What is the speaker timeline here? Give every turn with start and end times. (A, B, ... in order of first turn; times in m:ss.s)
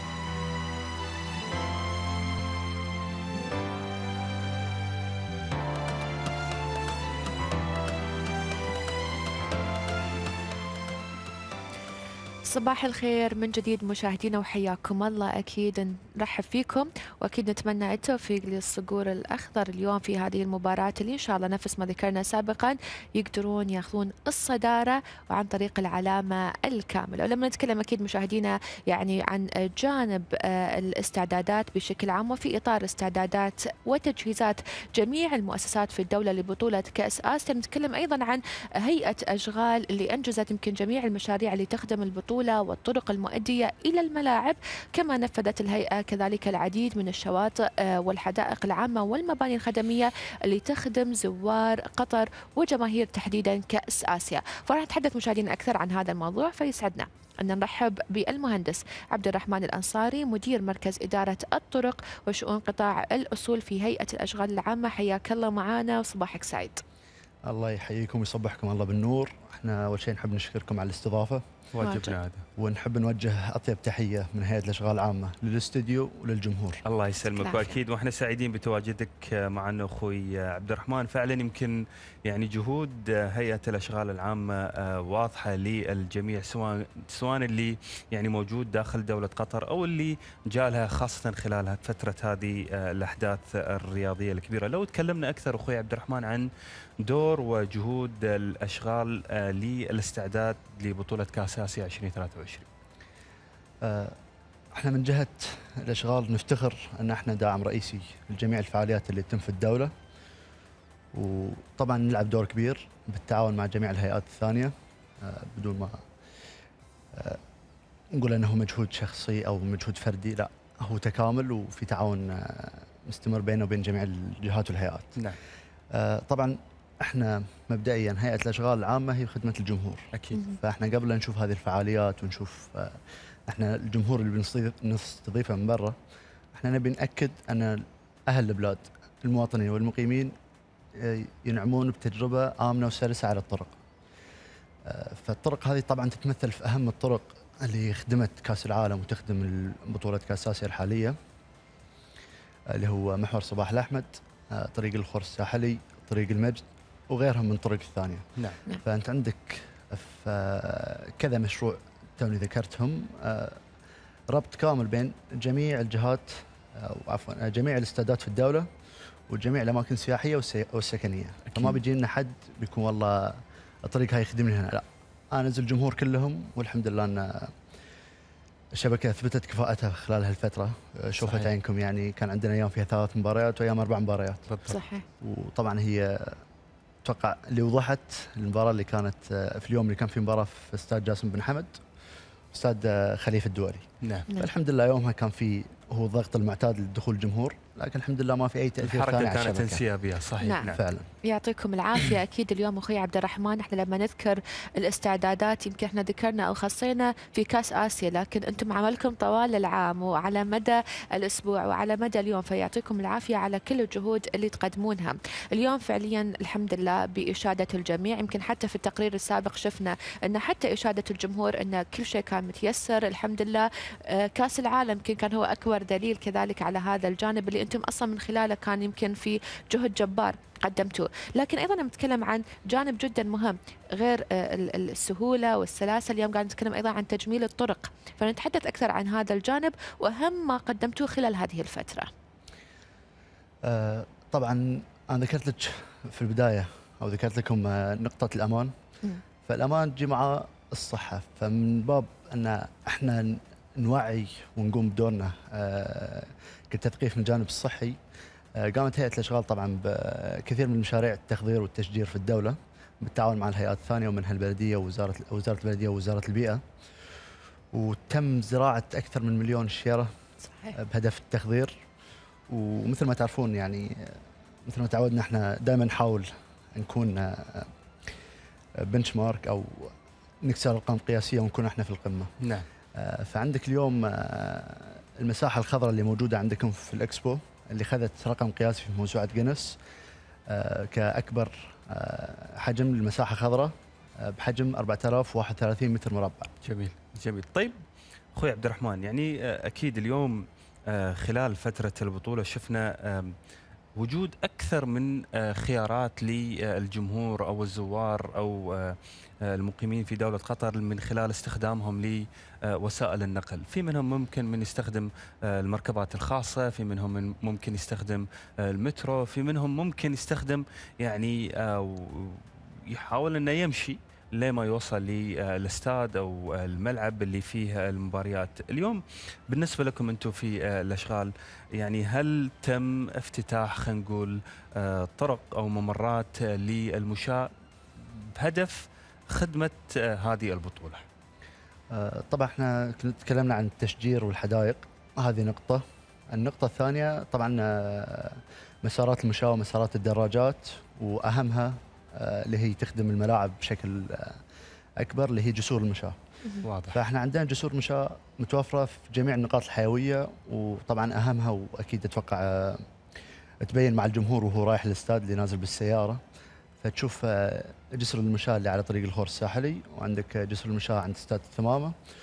0:12.5-1:06.8 A
1:07.4-1:11.4 B
1:11.7-1:12.4 C
1:11.8-1:12.1 A
1:12.6-1:16.8 B
1:16.8-1:36.4 C
1:17.4-1:17.8 A
1:37.0-1:42.7 C
1:43.8-1:44.2 B
1:44.7-1:49.9 B
1:51.1-1:56.0 B
1:57.1-1:57.4 B
1:58.1-2:05.2 B
2:05.9-2:10.0 B
2:10.6-2:16.0 B
2:16.5-2:20.3 B
2:20.9-2:23.8 B
2:24.8-2:31.2 B
2:32.7-2:38.2 B
2:38.8-2:43.6 B
2:44.3-2:48.7 B
2:49.3-2:57.5 B
2:58.7-3:04.5 B
3:01.2-3:01.5 C
3:04.5-3:04.8 C
3:04.7-3:05.0 A
3:05.2-3:06.4 B
3:07.0-3:11.8 B
3:12.5-3:19.8 B
3:18.8-3:20.8 C
3:20.6-3:21.1 B
3:21.2-4:02.1 A
4:03.6-4:08.7 B
4:09.4-4:18.0 B
4:18.6-4:26.6 B
4:27.7-4:30.1 B
4:30.7-4:31.8 B
4:32.5-4:37.7 B
4:38.8-4:39.9 B
4:40.4-4:42.3 B
4:42.4-4:42.7 C
4:43.0-4:49.8 B
4:50.5-4:56.5 B
4:56.6-4:57.8 C
4:58.4-5:03.3 C
5:04.0-5:41.0 C
5:41.9-5:54.4 B
5:55.0-5:56.2 B
5:56.6-5:57.0 C
5:56.9-6:02.8 B
6:03.6-6:06.2 B
6:06.8-6:11.9 B